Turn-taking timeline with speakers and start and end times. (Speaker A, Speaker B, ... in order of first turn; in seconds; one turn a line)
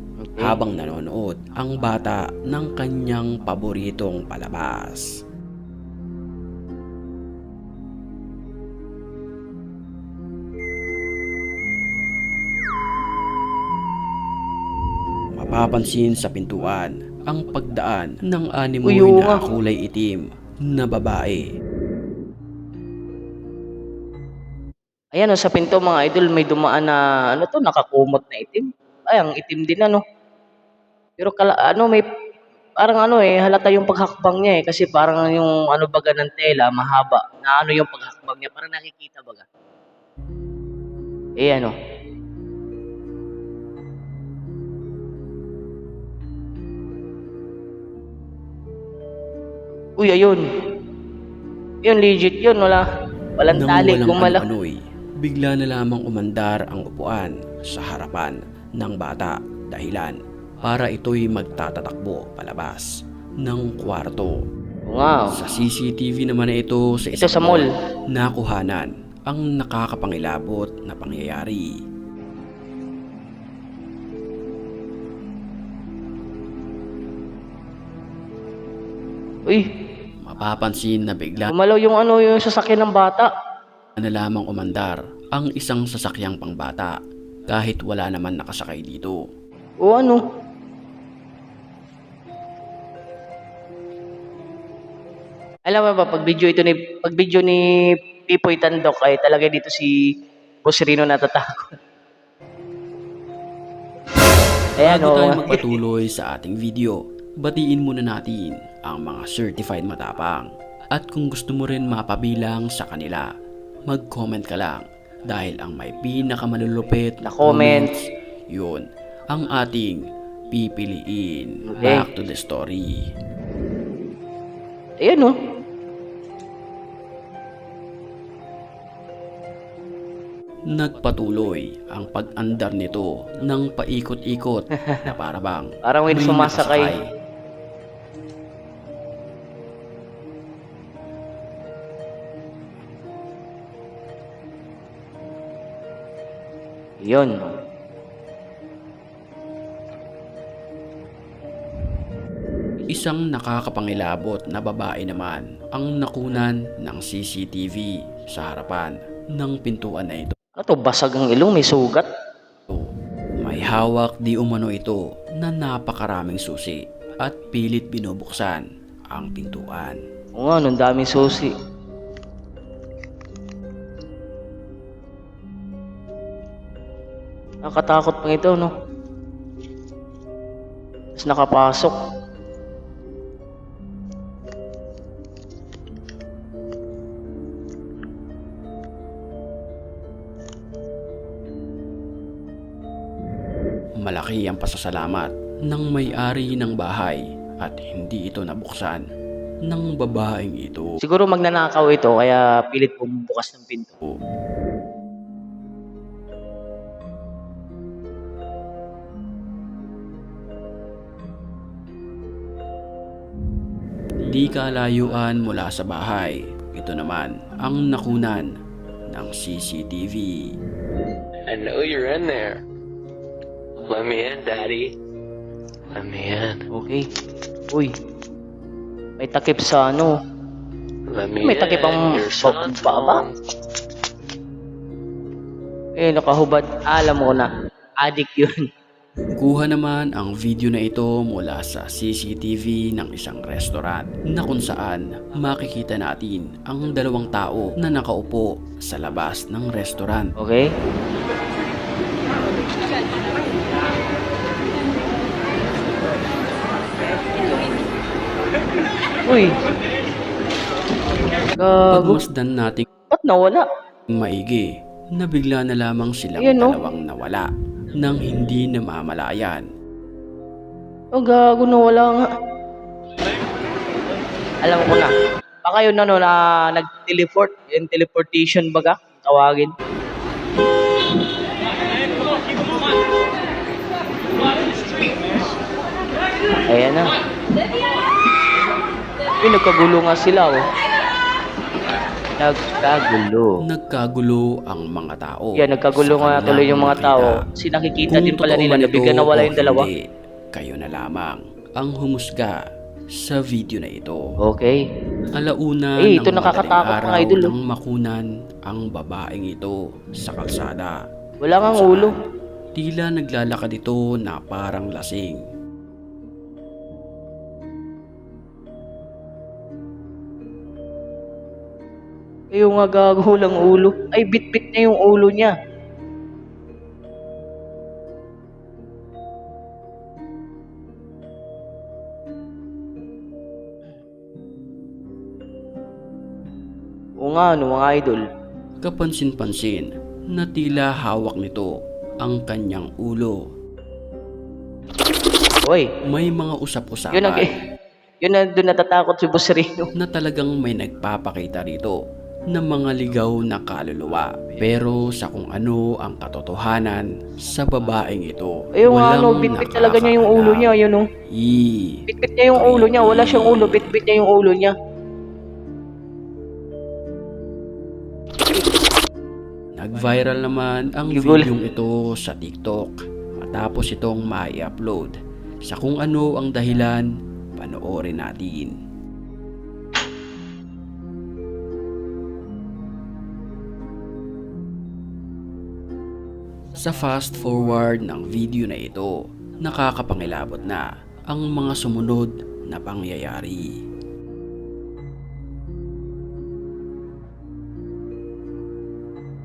Speaker A: 0.2-0.6
Speaker B: 0.4-5.0
Speaker B: 15.3-21.4
Speaker A: 18.8-19.4
Speaker A: 25.1-30.0
Speaker A: 31.2-32.0
Speaker A: 32.8-39.5
Speaker A: 41.4-41.7
Speaker A: 50.0-50.4
Speaker A: 51.8-52.8
Speaker A: 53.4-54.4
Speaker B: 53.5-62.9
Speaker B: 63.4-64.3
Speaker A: 64.9-65.3
Speaker B: 65.3-71.7
Speaker A: 67.2-67.7
Speaker B: 80.2-81.5
Speaker A: 81.5-83.3
Speaker B: 84.0-86.9
Speaker B: 87.5-89.2
Speaker A: 89.8-90.2
Speaker A: 95.7-97.6
Speaker A: 98.3-99.9
Speaker A: 100.6-101.7
Speaker A: 104.8-105.7
Speaker B: 104.8-113.3
Speaker B: 113.9-117.9
Speaker A: 117.2-117.9
Speaker B: 118.5-120.0
Speaker B: 120.5-122.9
Speaker A: 121.7-122.0
Speaker A: 125.0-125.3
Speaker B: 130.8-137.0
Speaker A: 134.8-135.1
Speaker A: 135.8-136.9
Speaker A: 147.0-147.5
Speaker B: 152.9-160.3
Speaker A: 160.6-162.1
Speaker B: 162.7-170.0
Speaker A: 170.4-171.5
Speaker A: 177.6-178.7
Speaker A: 181.2-182.0
Speaker B: 194.0-199.0
Speaker B: 199.7-200.9
Speaker A: 201.0-204.0
Speaker B: 214.2-218.4
Speaker B: 219.1-220.3
Speaker C: 221.5-222.6
Speaker C: 223.8-224.9
Speaker C: 225.9-226.6
Speaker A: 226.7-227.0
Speaker A: 229.2-230.1
Speaker C: 231.1-233.3
Speaker A: 231.4-233.2
Speaker A: 236.0-237.5
Speaker A: 238.0-238.6
Speaker B: 239.4-250.3
Speaker A: 250.4-250.7
Speaker A: 259.2-259.5
Speaker A: 261.6-262.2
Speaker B: 261.9-262.9
Speaker A: 263.1-263.7
Speaker B: 264.1-264.6
Speaker B: 265.2-267.5
Speaker A: 266.4-266.8
Speaker B: 268.0-269.6
Speaker A: 271.1-272.2
Speaker A: 274.6-275.1
Speaker A: 275.6-279.7
Speaker A: 286.7-287.1
Speaker A: 289.4-290.6
Speaker A: 292.4-293.5
Speaker B: 293.7-297.4
Speaker A: 295.6-299.9
Speaker B: 298.1-299.9
Speaker B: 300.5-302.5
Speaker B: 303.2-304.2
Speaker A: 304.4-304.8
Speaker B: 305.3-310.9
Speaker A: 306.0-307.5
Speaker A: 311.4-312.1
Speaker B: 311.6-312.1
Speaker B: 312.8-315.4
Speaker A: 322.5-325.5
Speaker A: 337.2-338.2
Speaker B: 338.8-341.7
Speaker B: 342.2-343.3
Speaker B: 346.0-347.5
Speaker A: 347.1-347.5
Speaker A: 348.2-349.9
Speaker B: 350.0-352.0
Speaker B: 352.5-360.7
Speaker A: 358.8-361.0
Speaker B: 361.3-362.0
Speaker A: 362.1-364.7
Speaker B: 362.5-363.9
Speaker B: 369.8-375.1
Speaker A: 371.1-371.5
Speaker B: 375.6-378.7
Speaker B: 386.7-393.7